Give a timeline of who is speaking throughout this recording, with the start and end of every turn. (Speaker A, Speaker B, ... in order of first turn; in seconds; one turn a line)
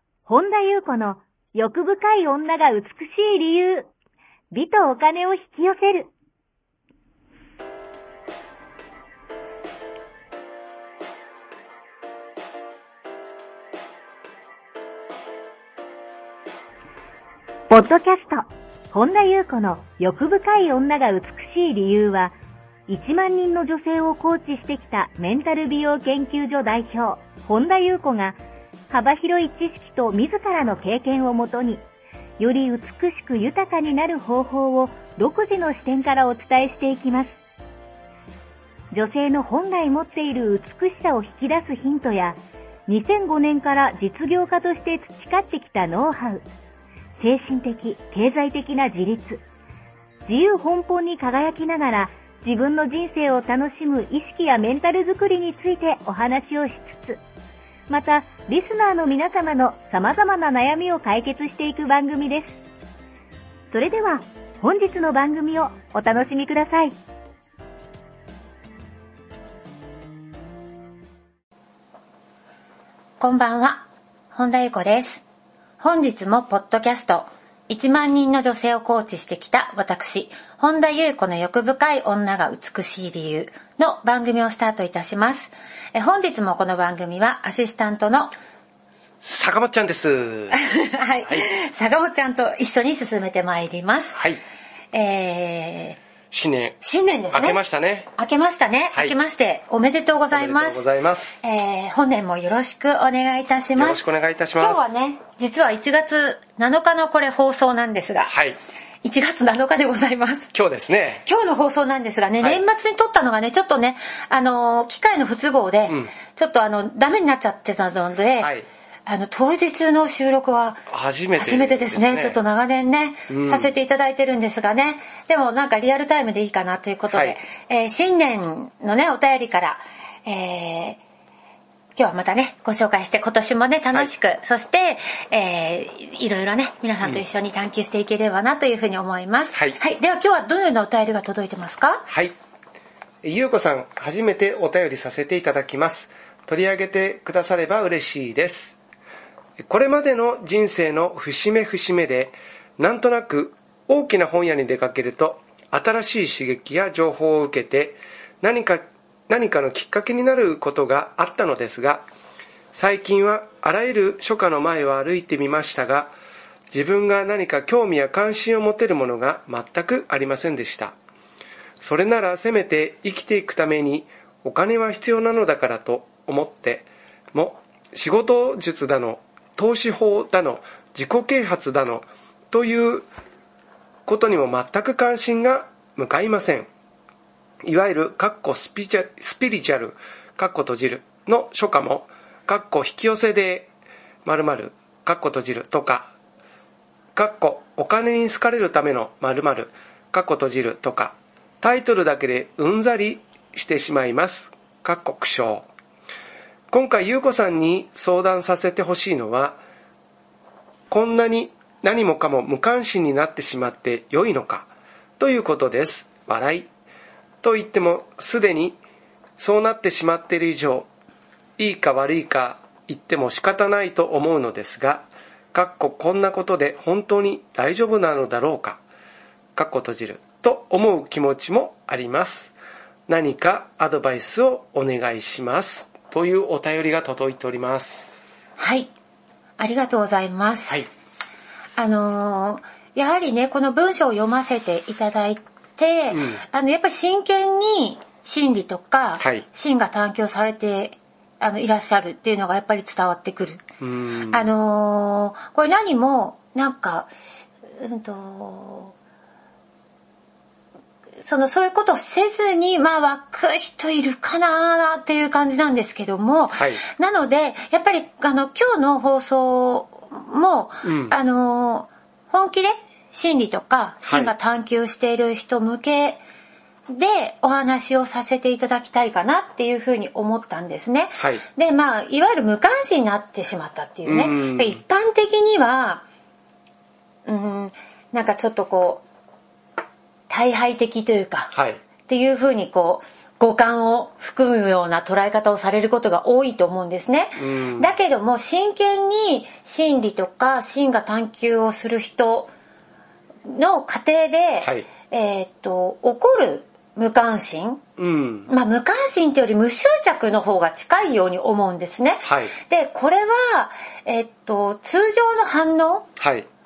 Speaker A: 0.3-3.9
Speaker A: 4.5-6.1
Speaker A: 17.7-22.4
Speaker A: 22.9-28.4
Speaker A: 28.9-31.8
Speaker A: 32.4-37.4
Speaker A: 38.9-46.5
Speaker A: 47.2-49.4
Speaker A: 50.3-57.2
Speaker A: 57.9-62.6
Speaker A: 63.7-67.0
Speaker B: 73.2-75.2
Speaker B: 75.8-88.3
Speaker C: 89.2-90.6
Speaker B: 90.5-94.2
Speaker B: 94.9-96.0
Speaker C: 96.3-96.8
Speaker B: 96.8-97.6
Speaker C: 97.3-98.1
Speaker B: 98.2-100.8
Speaker C: 100.3-101.3
Speaker B: 101.4-104.0
Speaker C: 103.8-104.9
Speaker B: 104.6-108.3
Speaker C: 108.3-108.6
Speaker B: 109.0-110.5
Speaker C: 110.5-111.2
Speaker B: 111.2-118.5
Speaker B: 119.1-120.8
Speaker C: 120.9-122.4
Speaker B: 121.4-131.0
Speaker C: 123.3-123.7
Speaker C: 127.1-127.4
Speaker B: 132.0-142.1
Speaker C: 142.1-142.3
Speaker C: 143.2-148.8
Speaker C: 149.6-162.0
Speaker C: 162.7-166.1
Speaker C: 166.7-171.0
Speaker C: 171.8-183.1
Speaker C: 184.1-186.7
Speaker C: 187.6-193.7
Speaker C: 194.2-196.1
Speaker C: 197.2-205.7
Speaker C: 206.7-209.6
Speaker C: 210.9-216.7
Speaker C: 217.4-218.8
Speaker C: 219.4-220.9
Speaker C: 221.6-228.8
Speaker C: 229.6-232.5
Speaker C: 233.1-238.2
Speaker B: 238.6-238.9
Speaker B: 239.6-240.9
Speaker B: 241.8-253.7
Speaker C: 246.1-246.4
Speaker C: 249.2-249.4
Speaker C: 253.8-254.4
Speaker B: 254.3-257.1
Speaker B: 257.8-258.9
Speaker B: 261.2-276.2
Speaker C: 266.6-266.8
Speaker C: 270.8-271.1
Speaker C: 274.1-274.3
Speaker B: 276.9-286.0
Speaker C: 281.2-281.4
Speaker C: 284.1-284.8
Speaker B: 287.3-289.0
Speaker B: 290.3-291.5
Speaker C: 291.5-291.8
Speaker B: 292.1-302.5
Speaker C: 297.4-297.9
Speaker B: 303.5-307.8
Speaker C: 304.6-304.9
Speaker C: 308.0-308.5
Speaker B: 308.5-316.1
Speaker C: 312.2-312.5
Speaker C: 316.2-316.5